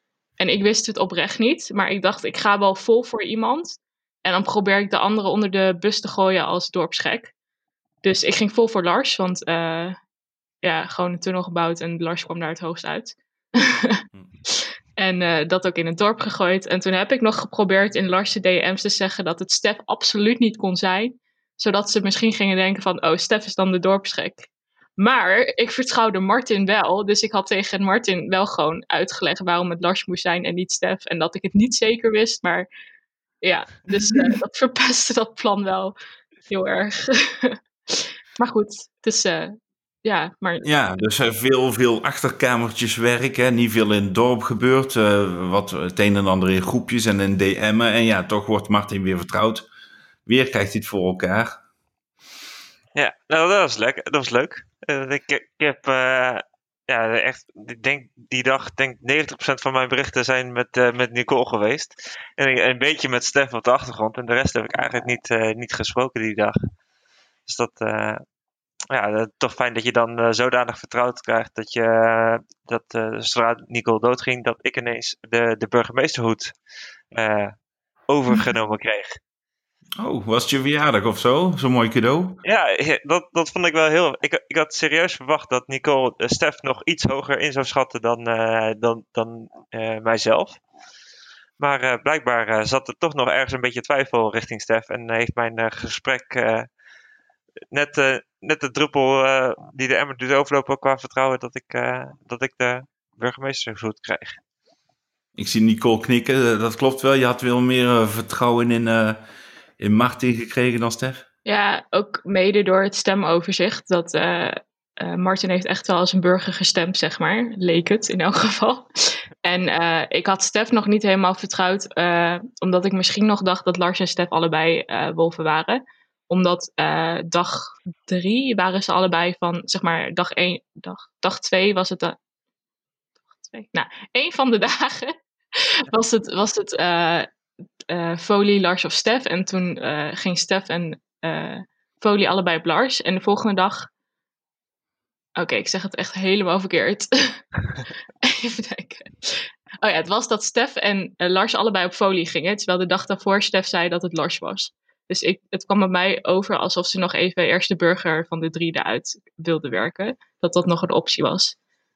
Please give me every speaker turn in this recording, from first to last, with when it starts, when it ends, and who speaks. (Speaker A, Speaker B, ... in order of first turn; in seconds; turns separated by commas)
Speaker A: 0.4-7.3, Speaker A: 8.0-10.0, Speaker A: 10.6-14.0, Speaker A: 15.0-24.5, Speaker A: 25.0-32.7, Speaker A: 33.4-36.0, Speaker A: 36.5-40.7, Speaker B: 40.6-49.7, Speaker B: 50.3-51.6, Speaker C: 53.0-66.6, Speaker C: 67.5-68.2, Speaker C: 68.9-76.5, Speaker C: 77.1-77.5, Speaker C: 78.1-79.2, Speaker B: 80.0-82.4, Speaker C: 82.4-90.6, Speaker C: 91.6-96.7, Speaker C: 97.7-104.4, Speaker B: 105.4-109.2, Speaker B: 109.8-111.2, Speaker A: 111.5-132.2, Speaker A: 133.4-137.3, Speaker A: 137.9-143.9, Speaker A: 145.4-147.4, Speaker A: 148.2-161.6